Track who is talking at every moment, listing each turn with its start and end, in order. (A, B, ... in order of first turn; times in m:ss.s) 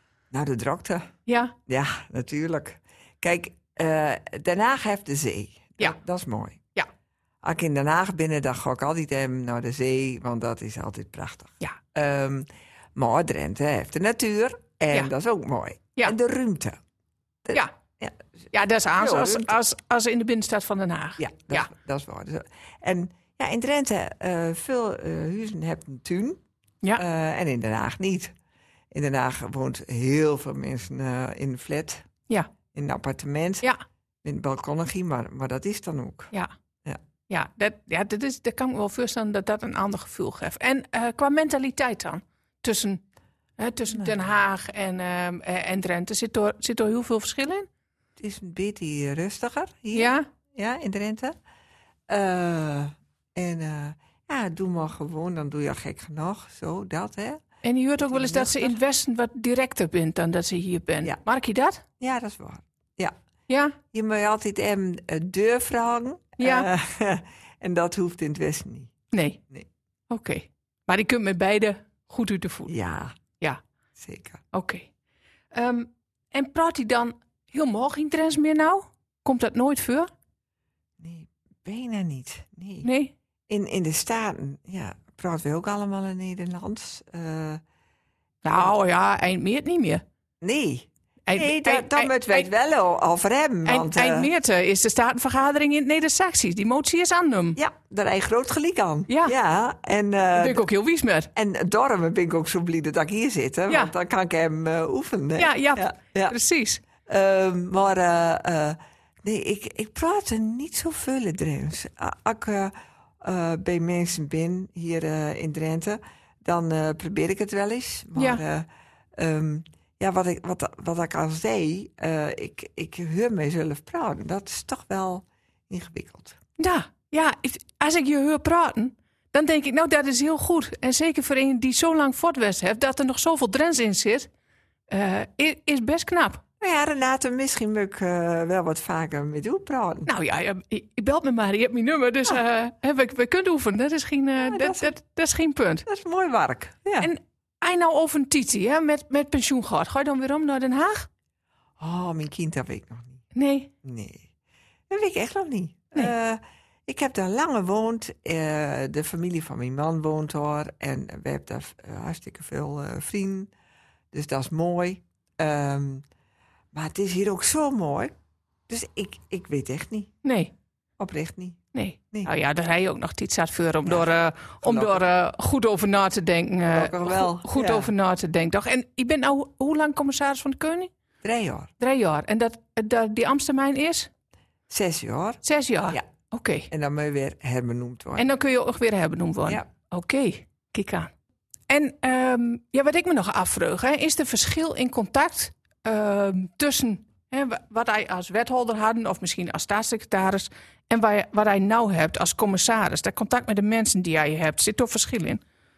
0:00.3-0:01.1 A
0:01.3-0:01.5 B
0:01.7-0:06.6 A
0:07.4-0:16.8 A
0:17.5-0:18.2 A
0:18.5-0:21.7 B
0:19.0-0:19.6 A
0:21.2-0:26.4 A
0:26.9-0:28.3 A
0:28.9-0:32.1 A
0:32.7-0:33.7 A
0:34.2-0:36.3 A
0:37.3-0:43.0 B
0:43.6-0:47.7 B
0:48.2-0:51.4 A
0:49.9-0:50.2 B
0:52.1-0:57.4 A
0:57.6-1:01.8 B
0:58.0-0:58.8 A
1:02.0-1:03.1 A
1:03.5-1:03.8 B
1:03.9-1:09.0 A
1:06.4-1:06.7 B
1:09.1-1:09.4 B
1:10.1-1:12.7 B
1:12.7-1:13.2 A
1:14.0-1:14.4 A
1:14.5-1:14.9 B
1:15.5-1:20.1 B
1:21.0-1:22.9 A
1:22.8-1:23.1 B
1:23.5-1:27.6 A
1:28.4-1:30.0 B
1:30.4-1:34.3 A
1:31.3-1:32.5 B
1:33.6-1:37.6 B
1:37.6-1:40.6 A
1:39.1-1:39.4 B
1:40.4-1:41.3 B
1:41.3-1:46.4 A
1:45.4-1:46.8 B
1:47.0-2:06.4 A
1:58.2-1:58.4 B
2:06.6-2:14.3 B
2:14.9-2:16.4 B
2:16.6-2:20.1 A
2:20.0-2:25.8 B
2:24.4-2:25.0 A
2:25.9-2:27.1 A
2:27.0-2:31.1 B
2:31.8-2:33.2 A
2:33.3-2:33.7 B
2:33.8-2:34.3 A
2:34.9-2:43.5 A
2:44.1-2:46.0 A
2:46.7-2:48.1 A
2:48.7-2:50.1 A
2:50.2-2:50.5 B
2:51.0-2:51.6 A
2:51.7-3:00.9 B
2:54.6-2:55.0 A
2:56.6-2:57.9 A
3:01.2-3:01.7 A
3:01.8-3:04.1 B
3:04.7-3:06.1 A
3:05.4-3:06.7 B
3:06.7-3:08.3 A
3:08.2-3:11.1 B
3:11.7-3:25.4 B